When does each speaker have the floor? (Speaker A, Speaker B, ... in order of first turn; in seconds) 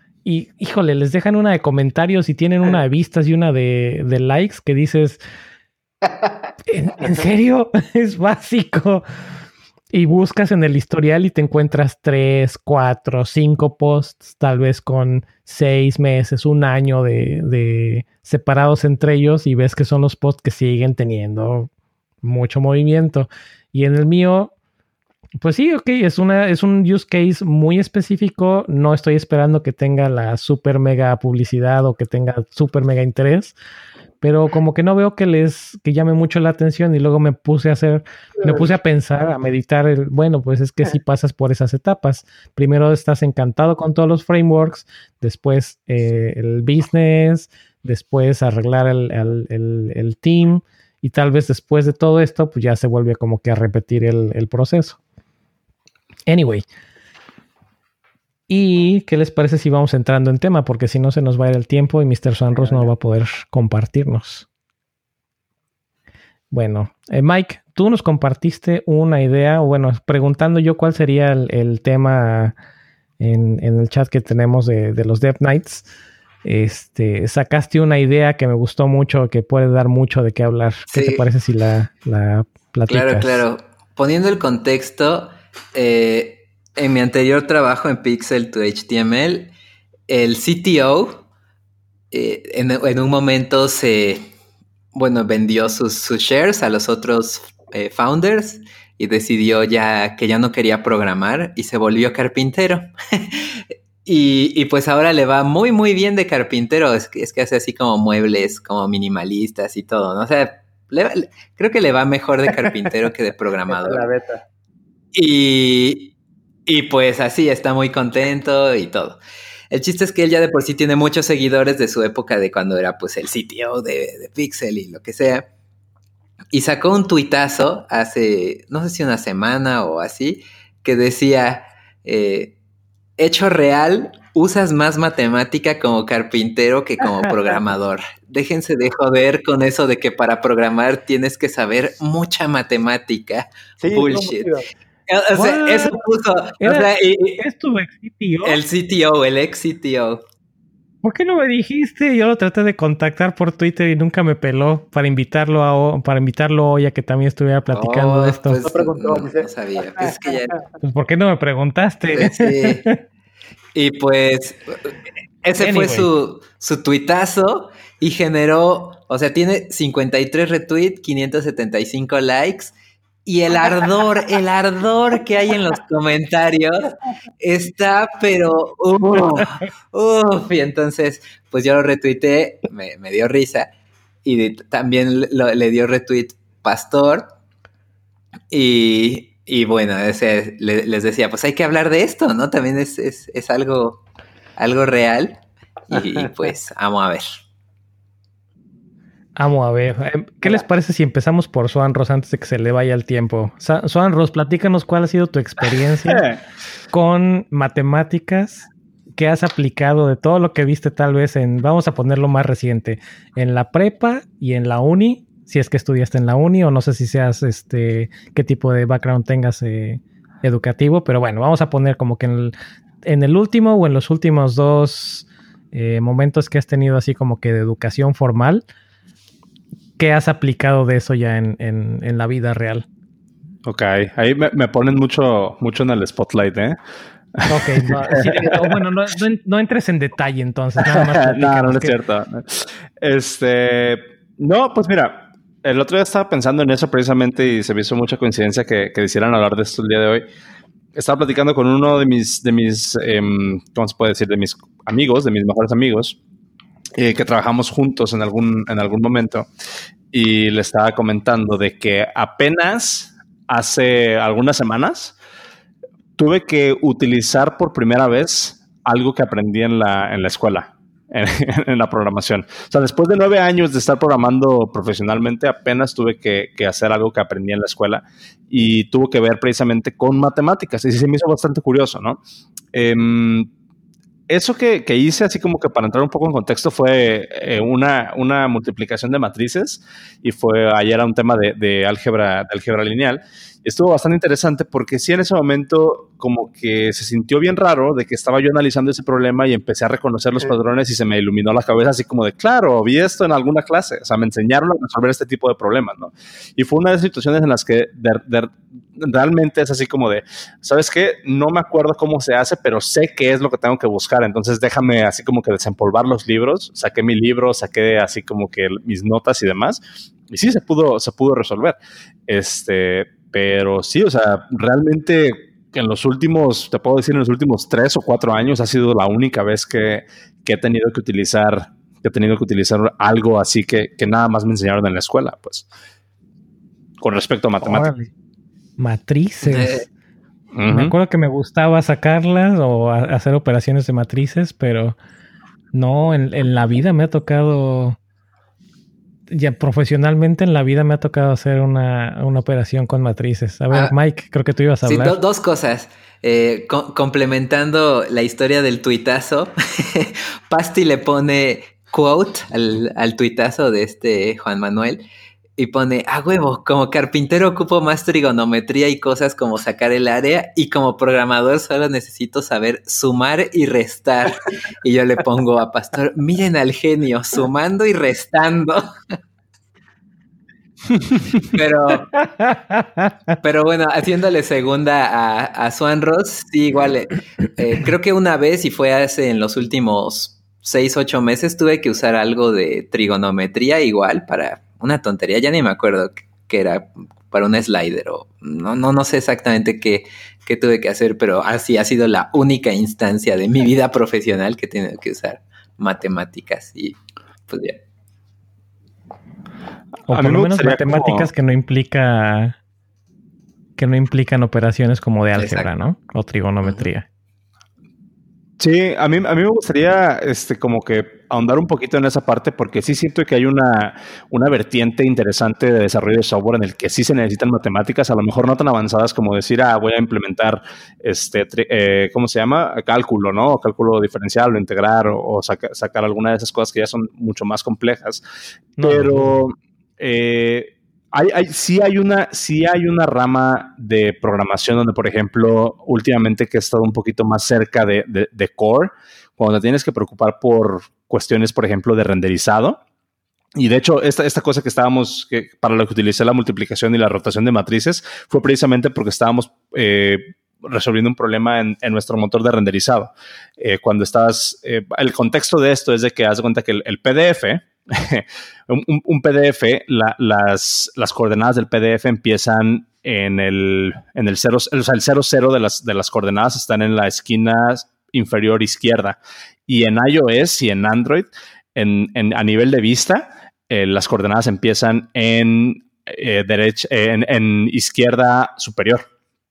Speaker A: 0.2-5.2, 6.7-9.0, 9.9-21.7, 22.2-24.5, 25.4-33.5, 34.2-55.0, 56.3-56.6, 58.5-64.5, 66.5-72.5, 73.2-75.8, 76.4-83.4, 145.3-146.0, 146.6-148.6, 151.0-158.6, 160.8-162.9, 165.6-166.1, 199.3-206.2, 206.9-228.6, 230.0-232.8, 237.5-241.9, 337.6-338.1, 338.8-339.9, 340.7-344.9, 345.7-348.0, 349.3-355.2, 382.2-383.1, 410.1-412.6, 413.8-417.0, 438.8-439.4
Speaker B: 62.6-62.9, 112.5-112.9, 113.7-114.4, 143.8-144.7, 158.6-160.7, 195.9-196.3
Speaker C: 80.9-81.2, 82.9-89.5, 90.1-91.2, 92.1-94.3, 94.9-114.1, 115.1-116.1, 116.7-119.2, 119.7-125.5, 126.5-132.5, 133.2-144.5, 145.1-147.4, 148.4-150.2, 157.7-160.6, 162.1-162.9, 163.7-172.7, 173.2-183.7, 184.2-187.3, 188.5-194.0, 194.6-197.4, 339.4-339.9, 354.8-365.0, 365.6-378.8, 381.4-382.1, 383.4-407.8, 415.4-415.7, 416.6-416.9
Speaker D: 206.1-206.4, 233.6-236.8, 237.4-238.6, 240.8-250.2, 250.9-256.2, 256.9-259.5, 260.1-265.1, 266.1-282.2, 282.7-283.5, 284.3-321.8, 322.3-335.6, 337.0-337.9, 340.5-340.9, 410.1-411.3, 418.6-438.2, 438.8-452.8, 453.5-489.0